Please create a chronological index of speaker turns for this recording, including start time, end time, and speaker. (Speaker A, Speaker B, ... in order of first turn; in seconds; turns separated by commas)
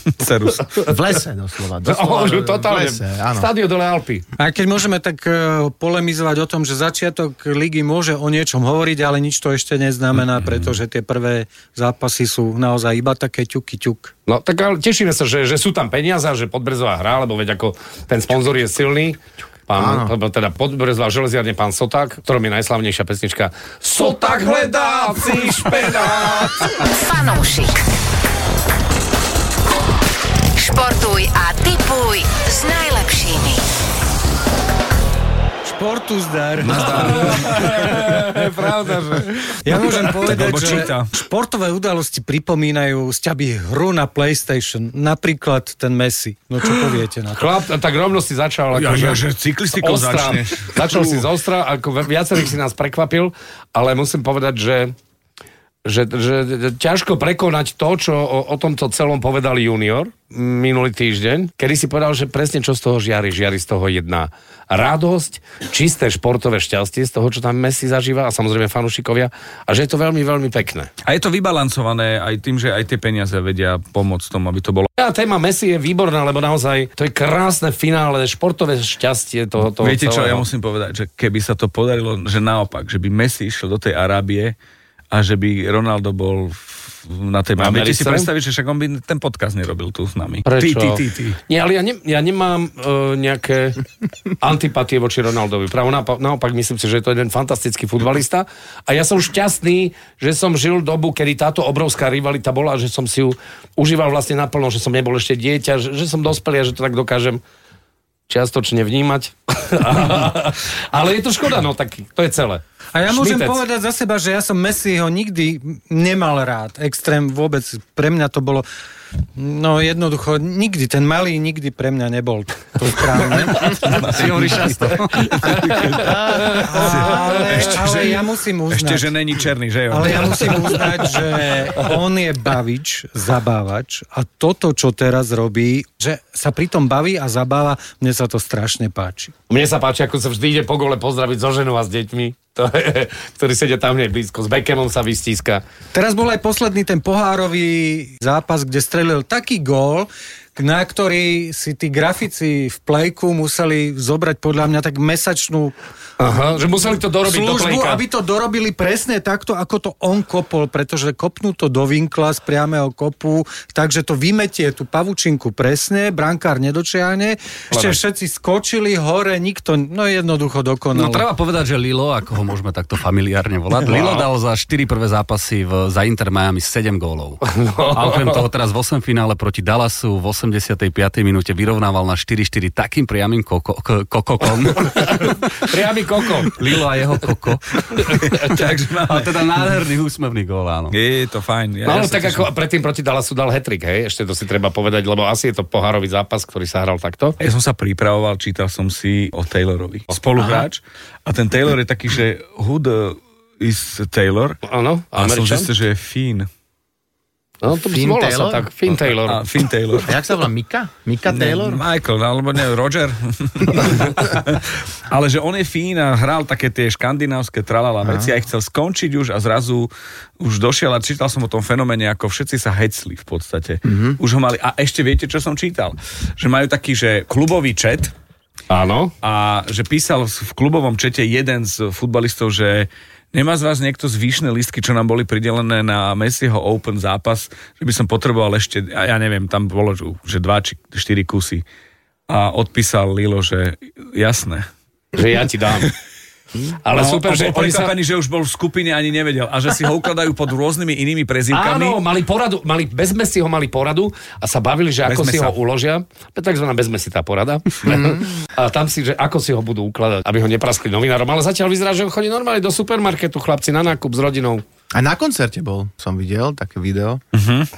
Speaker A: 0.2-0.7, Speaker B: 0.5-0.9, Speaker C: 0.8-3.5, Speaker B: 1.8-4.2, Speaker D: 4.4-14.1, Speaker B: 14.3-26.8, Speaker C: 19.8-20.1, Speaker A: 24.0-26.5, Speaker E: 26.8-27.8, Speaker E: 30.5-33.6, Speaker D: 35.6-38.0, Speaker A: 36.6-38.5, Speaker B: 36.8-39.5, Speaker D: 39.6-47.5, Speaker A: 39.8-41.1, Speaker B: 47.3-49.2, Speaker A: 48.7-51.2, Speaker B: 49.8-54.9, Speaker B: 55.8-70.9, Speaker A: 71.0-74.9, Speaker B: 75.0-80.4, Speaker A: 79.8-84.5, Speaker A: 85.1-91.4, Speaker B: 87.6-88.3, Speaker B: 90.5-93.8, Speaker B: 94.4-107.4, Speaker B: 108.3-113.6, Speaker D: 112.9-118.7, Speaker D: 119.3-123.8, Speaker F: 123.8-125.7, Speaker A: 123.8-130.8, Speaker C: 126.1-126.5, Speaker D: 126.5-129.1, Speaker D: 129.9-139.3, Speaker B: 139.5-145.6, Speaker D: 145.9-155.7, Speaker B: 156.2-158.0, Speaker D: 157.2-171.3, Speaker B: 167.7-168.0, Speaker F: 170.9-185.5, Speaker B: 173.9-174.2, Speaker B: 177.4-178.4, Speaker B: 184.7-186.5, Speaker F: 186.5-190.9, Speaker A: 188.1-189.3, Speaker A: 190.9-192.5, Speaker B: 191.8-197.4, Speaker A: 197.4-204.6, Speaker B: 204.7-205.7, Speaker A: 205.1-206.5, Speaker B: 207.6-209.4, Speaker C: 207.9-208.7, Speaker A: 209.2-210.2, Speaker C: 210.1-211.8, Speaker A: 211.3-228.1, Speaker C: 218.0-218.3, Speaker C: 223.8-224.2, Speaker B: 228.7-229.1, Speaker A: 229.2-241.6, Speaker A: 242.3-244.7, Speaker B: 245.1-245.9, Speaker B: 246.8-247.9, Speaker A: 246.9-252.0, Speaker B: 251.5-264.6, Speaker A: 255.1-255.5, Speaker C: 257.8-258.4, Speaker C: 264.9-267.2, Speaker A: 267.3-267.7